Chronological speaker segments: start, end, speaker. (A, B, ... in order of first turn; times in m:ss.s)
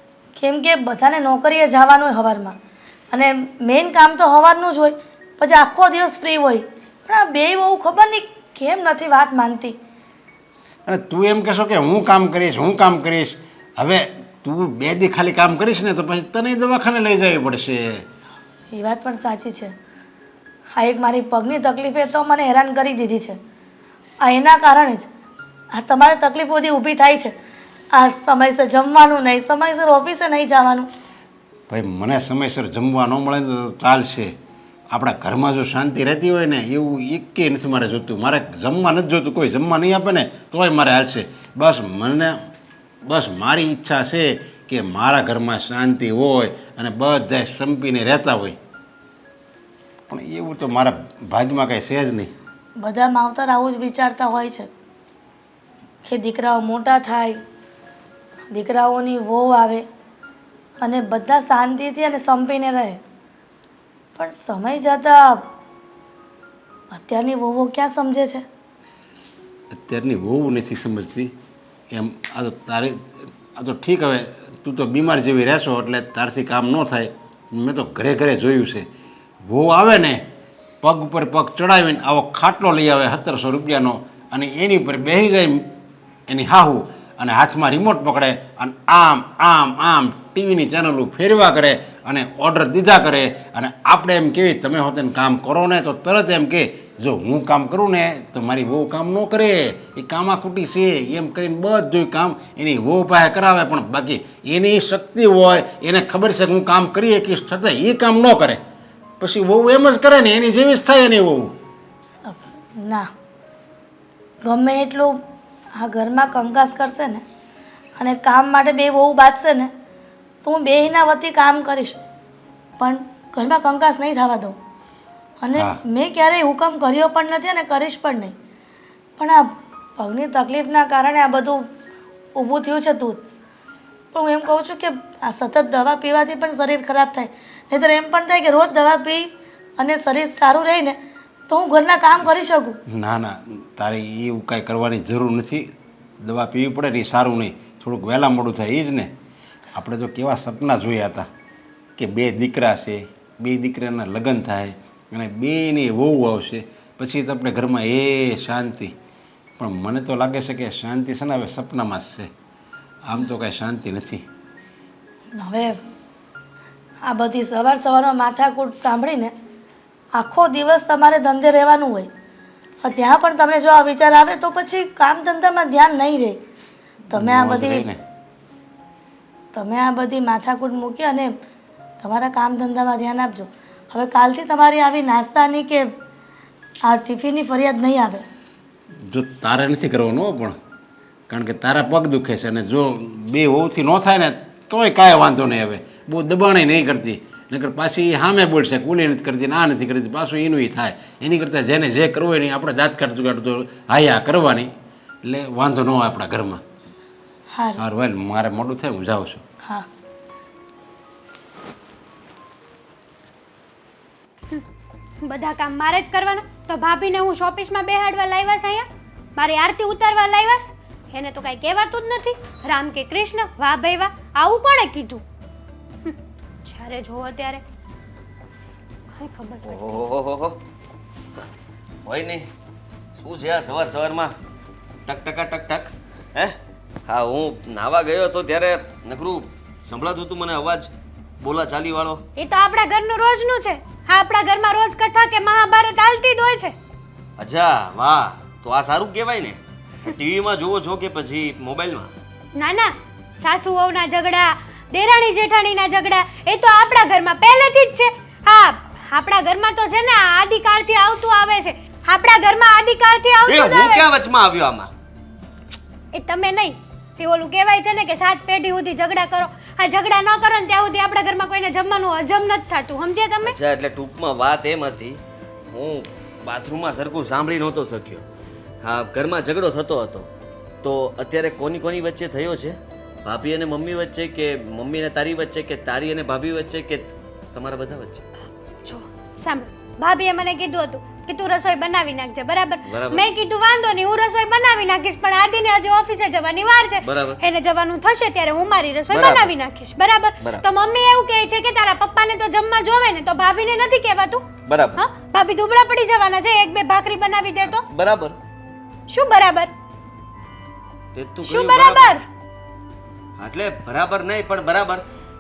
0:00.4-0:02.6 A
0:03.1-0:09.8 A
0:10.9-0:18.0 B
0:18.7-0:19.7 A
0:20.8-0:23.4 A
0:24.2-0:25.1 A
0:25.7-0:27.3 A
0:27.9-0:30.9 A
0:31.7-0:34.3 B
0:34.9-0:42.4 B
0:43.0-0:48.6 B
0:50.1-0:52.3 B
0:52.8-0:54.7 A
0:56.0-0:57.4 A
0:58.5-0:59.9 A
1:00.8-1:03.0 A
1:04.2-1:05.5 A
1:06.9-1:08.4 A
1:09.7-1:11.3 B
1:11.9-1:18.9 B
1:19.5-1:20.2 B
1:20.8-1:25.7 B
1:26.3-1:48.6 B
1:49.2-1:51.6 B
1:52.3-1:53.1 A
1:54.4-1:55.2 A
1:55.8-1:57.2 A
1:58.0-1:59.7 A
2:00.4-2:02.0 A
2:02.8-2:04.6 A
2:05.4-2:08.4 A
2:09.2-2:11.7 A
2:12.4-2:13.2 A
2:14.1-2:21.0 A
2:21.5-2:22.8 A
2:22.9-2:25.7 B
2:26.2-2:29.1 B
2:29.8-2:31.3 B
2:32.0-2:38.9 B
2:39.6-2:42.3 B
2:43.0-2:44.2 B
2:45.4-2:45.8 A
2:47.0-2:49.3 A
2:50.1-2:52.1 A
2:52.8-2:56.4 A
2:57.1-2:58.0 B
2:57.1-2:57.9 A
2:59.5-3:01.4 A
3:02.0-3:05.9 A
3:06.8-3:08.2 A
3:09.1-3:10.6 B
3:11.3-3:24.7 B
3:25.2-3:26.6 B
3:27.5-3:27.8 A
3:27.8-3:29.4 B
3:35.2-3:45.2 C
3:46.0-3:47.6 C
3:49.2-3:50.0 C
3:49.6-3:50.6 D
3:52.1-3:52.5 D
3:53.2-3:54.3 D
3:55.1-3:56.6 D
3:57.1-4:00.9 D
4:01.4-4:02.2 D
4:02.4-4:06.8 C
4:07.4-4:12.1 D
4:12.6-4:24.1 C
4:23.5-4:24.9 D
4:26.1-4:33.6 C
4:33.4-4:38.2 D
4:38.8-4:40.3 D
4:40.8-4:48.2 D
4:48.8-5:07.9 C
4:52.9-4:53.2 D
4:57.0-4:57.4 D
4:59.1-4:59.5 D
5:00.4-5:00.6 D
5:04.7-5:05.0 D
5:07.7-5:08.4 D
5:09.1-5:09.7 C
5:11.2-5:12.2 D
5:11.4-5:12.2 C
5:13.4-5:15.0 D